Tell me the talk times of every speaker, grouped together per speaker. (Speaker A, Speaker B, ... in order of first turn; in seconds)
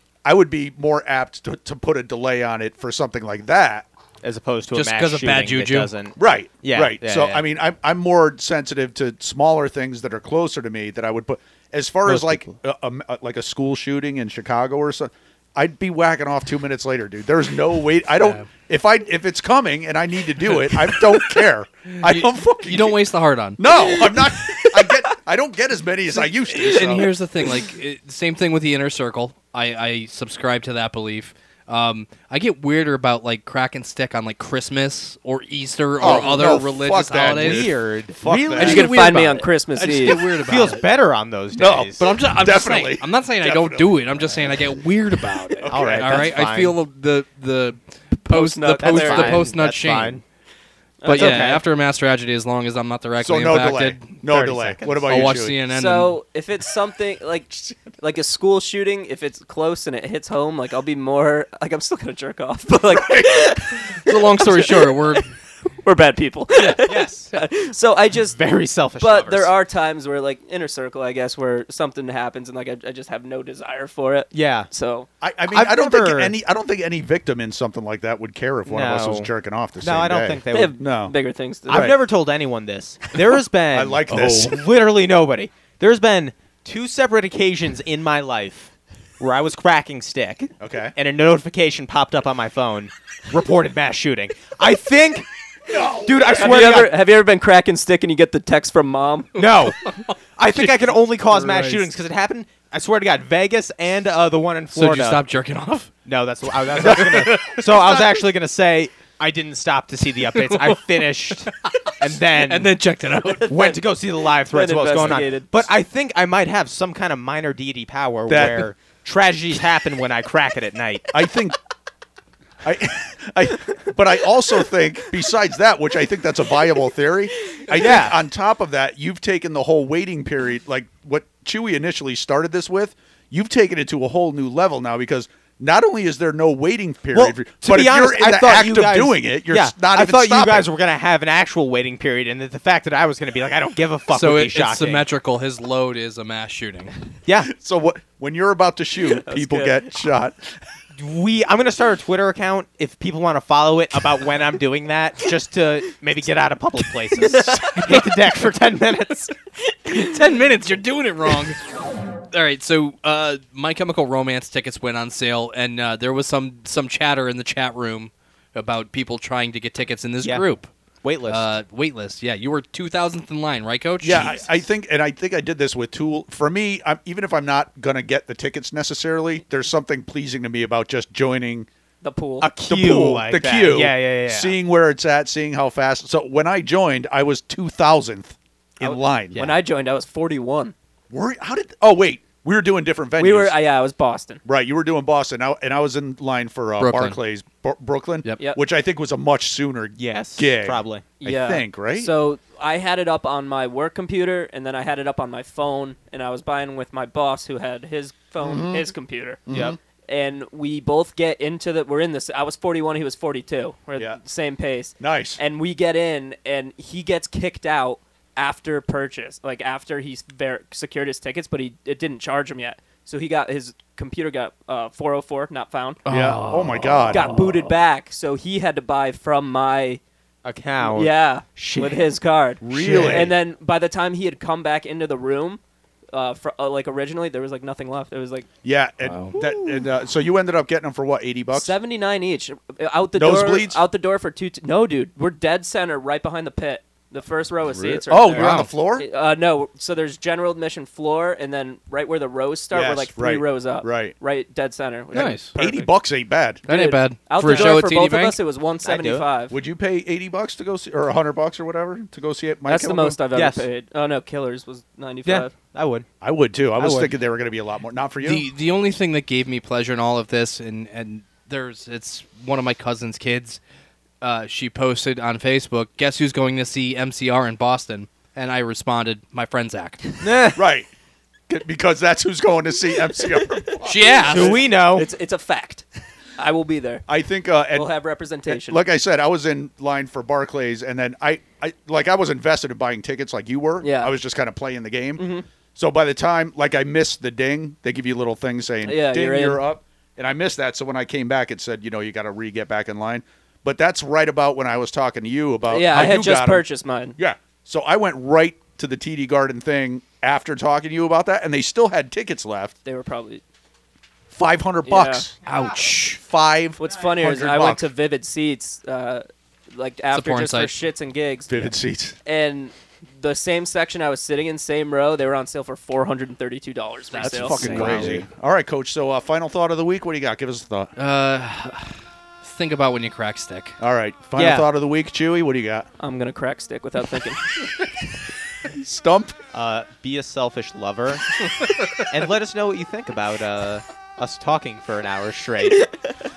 Speaker A: 0.2-3.9, 6.2-23.0, 23.6-27.1, 36.0-38.9, 41.5-44.5, 45.6-46.3, 53.2-55.5, 62.9-63.5, 75.2-81.2, 81.7-82.0, 83.7-84.6, 90.6-91.0, 95.7-96.8, 118.3-118.7, 121.1-121.6, 122.6-140.7, 147.4-150.6, 174.0-181.7, 182.7-189.4, 191.1-193.6, 194.4-202.1, 208.4-208.9, 209.5-209.8, 215.0-215.4, 226.1-227.3, 232.6-233.3, 238.6-241.8, 243.2-243.8, 247.8-249.1, 252.7-254.2, 255.2-256.6, 259.5-263.2, 266.2-268.4, 280.6-280.9, 281.5-284.6, 287.1-287.9, 288.5-306.7, 307.2-312.8, 314.3-315.4, 316.1-317.9, 321.5-322.2, 327.2-330.9, 333.8-335.9, 338.6-339.4
Speaker B: 4.2-7.5, 12.1-12.5, 36.0-36.5, 37.3-38.9, 40.5-42.0, 45.7-46.8, 48.8-50.2, 51.1-51.6, 54.2-55.2, 66.8-67.4, 68.2-69.5, 74.3-74.7, 75.5-76.4, 78.7-80.8, 81.7-95.3, 96.0-97.0, 99.4-99.8, 100.4-105.2, 106.1-112.8, 113.5-121.1, 127.8-128.2, 137.1-145.1, 147.3-147.5, 150.9-159.3, 171.0-171.5, 182.4-184.6, 200.0-201.1, 209.5-209.8, 230.4-232.1, 232.7-233.3, 258.8-259.3, 263.3-263.7, 265.3-266.1, 266.8-267.1, 280.2-280.6, 284.2-285.1, 327.6-328.2, 334.4-334.7, 339.5-341.3, 342.1-345.9
Speaker C: 4.7-5.9, 18.1-18.5, 20.5-21.4, 22.0-25.1, 26.2-37.7, 38.5-40.9, 41.9-50.2, 51.0-54.1, 55.1-56.2, 63.9-65.3, 66.6-67.0, 84.1-84.5, 99.4-101.9, 104.7-105.9, 106.5-108.0, 110.3-113.5, 144.1-146.9, 159.9-161.6, 162.3-170.7, 171.2-174.5, 196.8-197.2, 226.1-227.7, 239.1-239.4, 248.3-248.7, 255.1-255.5, 256.7-258.4, 268.2-273.6, 274.2-280.1, 283.8-284.6, 315.4-316.2, 320.1-320.7, 327.1-328.2, 331.0-333.8, 341.6-342.1
Speaker D: 38.6-40.2, 48.3-49.5, 51.0-51.6, 55.7-65.2, 65.8-68.4, 69.0-75.1, 80.5-81.9, 96.3-99.3, 113.4-113.8, 114.5-115.7, 149.1-149.9, 157.3-157.7, 182.0-182.5, 188.8-190.7, 193.2-194.4, 201.2-209.4, 210.1-226.0, 227.1-230.0, 230.8-235.6, 236.1-238.5, 241.5-256.0, 256.7-259.6, 262.7-265.5, 284.3-285.9, 286.4-287.0, 287.7-288.8, 293.8-294.1, 295.2-295.5, 298.9-299.6, 305.7-307.2, 312.9-313.4, 314.9-315.3, 316.8-328.0, 336.0-337.7